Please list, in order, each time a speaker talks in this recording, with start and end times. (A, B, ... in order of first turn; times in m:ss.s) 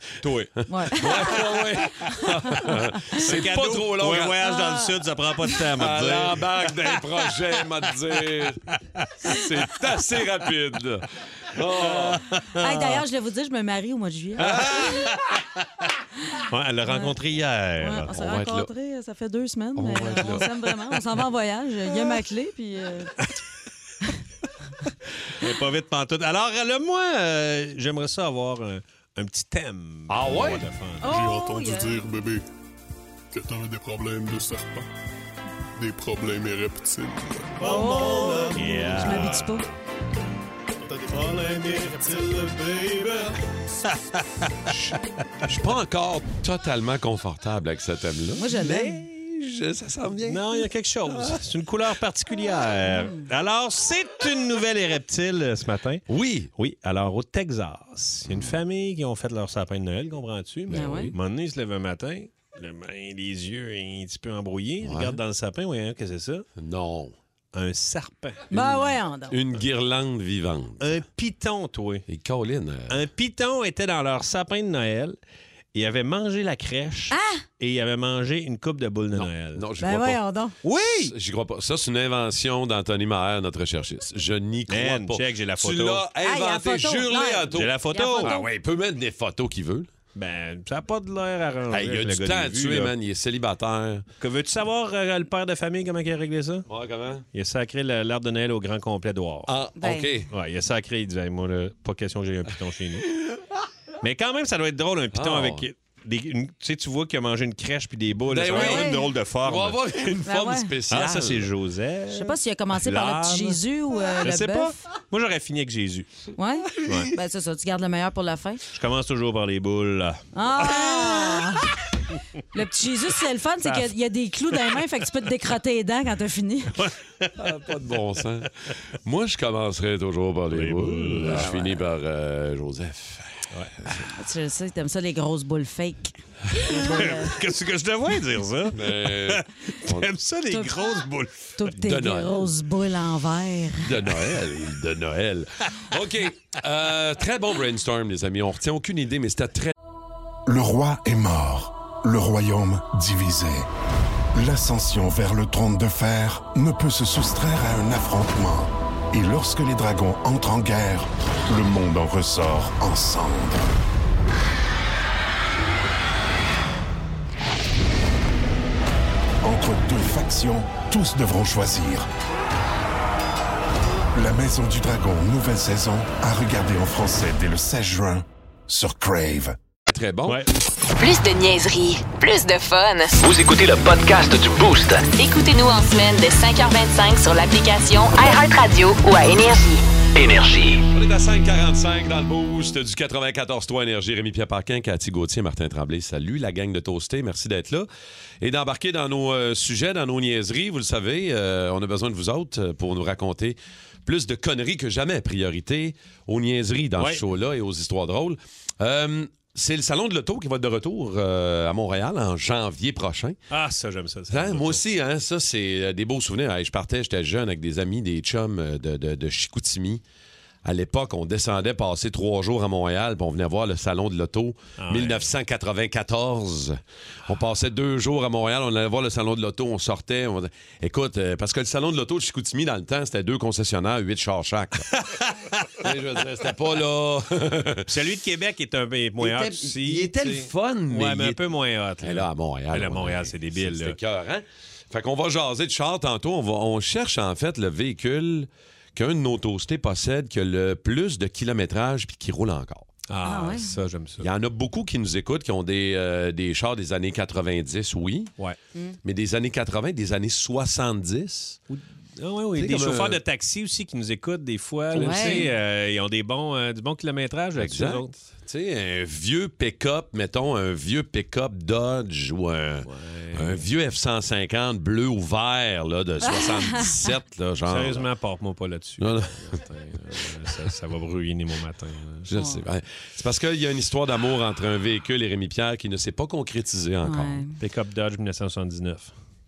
0:00.2-0:00.5 A
0:00.2-0:04.4 B
0:00.7-0:03.3 C
0:01.2-0:01.4 A
0:03.1-0:07.0 A
0:04.4-0:04.9 C
0:05.8-0:08.6 B
0:09.2-0:12.2 B
0:11.7-0:13.0 A
0:12.6-0:15.1 C
0:14.4-0:15.6 A
0:16.4-0:18.1 A
0:16.9-0:17.1 C
0:17.8-0:23.2 C
0:18.1-0:18.7 B
0:19.8-0:20.5 B
0:25.4-0:31.2 A
0:30.1-0:30.6 B
0:31.0-0:32.0 C
0:31.0-0:32.4 D
0:33.3-0:34.9 D
0:35.8-0:37.7 D
0:37.6-0:39.5 A
0:37.6-0:39.6 C
0:41.1-0:43.4 A
0:43.9-0:44.2 A
0:44.7-0:50.6 B
0:48.4-0:49.0 C
0:50.2-0:56.0 A
0:56.1-0:56.5 B
0:56.6-1:06.4 A
0:58.3-0:58.5 B
1:00.7-1:01.2 B
1:00.7-1:01.1 C
1:04.8-1:05.2 B
1:06.6-1:07.1 B
1:07.5-1:08.5 A
1:08.5-1:09.4 C
1:08.5-1:10.9 B
1:10.8-1:12.0 A
1:12.1-1:13.0 B
1:12.9-1:15.2 A
1:15.7-1:19.6 A
1:17.1-1:17.4 C
1:19.1-1:20.2 B
1:19.8-1:20.5 C
1:20.6-1:21.1 A
1:20.9-1:29.9 B
1:24.7-1:26.1 A
1:26.2-1:28.5 C
1:27.5-1:28.4 A
1:30.1-1:32.9 A
1:31.7-1:34.0 B
1:34.2-1:36.6 A
1:36.7-1:37.2 B
1:37.3-1:39.5 A
1:39.5-1:40.3 B
1:39.8-1:40.1 C
1:40.3-1:43.1 A
1:44.0-1:49.8 A
1:45.1-1:45.7 B
1:48.3-1:51.5 B
1:48.5-1:49.0 C
1:50.2-1:50.7 C
1:50.9-1:53.6 A
1:52.1-1:54.8 C
1:54.2-1:56.1 A
1:56.4-1:58.6 C
1:56.8-1:57.1 A
1:58.7-2:01.6 A
2:00.3-2:01.6 C
2:02.5-2:06.8 C
2:03.6-2:03.9 A
2:04.5-2:04.8 A
2:06.7-2:07.3 A
2:07.4-2:08.5 B
2:09.0-2:13.4 B
2:10.5-2:11.6 A
2:11.3-2:11.8 C
2:14.1-2:17.4 C
2:16.5-2:21.5 A
2:18.7-2:20.1 B
2:20.5-2:21.0 C
2:21.6-2:23.9 C
2:21.8-2:22.5 B
2:23.8-2:29.7 B
2:30.4-2:33.7 E
2:34.3-2:43.7 E
2:49.4-2:52.1 E
2:54.1-2:59.6 E
2:59.9-3:00.4 B
3:01.0-3:03.1 F
3:03.2-3:05.0 G
3:05.1-3:09.8 F
3:10.1-3:10.8 G
3:10.9-3:17.9 B
3:18.4-3:33.4 B
3:27.0-3:27.2 A
3:33.5-3:34.8 A
3:34.3-3:40.0 B
3:40.6-3:54.9 B
3:44.8-3:45.3 A
3:55.0-3:55.3 A
3:55.8-3:57.9 B
3:57.9-4:04.0 A
3:59.2-4:01.4 B
4:02.0-4:12.9 B
4:13.1-4:14.3 A
4:13.2-4:13.7 C
4:14.2-4:18.3 B
4:19.0-4:21.6 B
4:21.7-4:28.2 A
4:22.6-4:23.2 B
4:24.9-4:25.5 B
4:24.9-4:25.5 C
4:27.6-4:38.0 B
4:32.8-4:33.6 A
4:36.2-4:37.1 C
4:37.6-4:42.3 A
4:39.0-4:39.6 B
4:42.2-4:47.4 B
4:42.3-4:42.6 C
4:47.0-4:47.5 C
4:47.6-4:49.2 A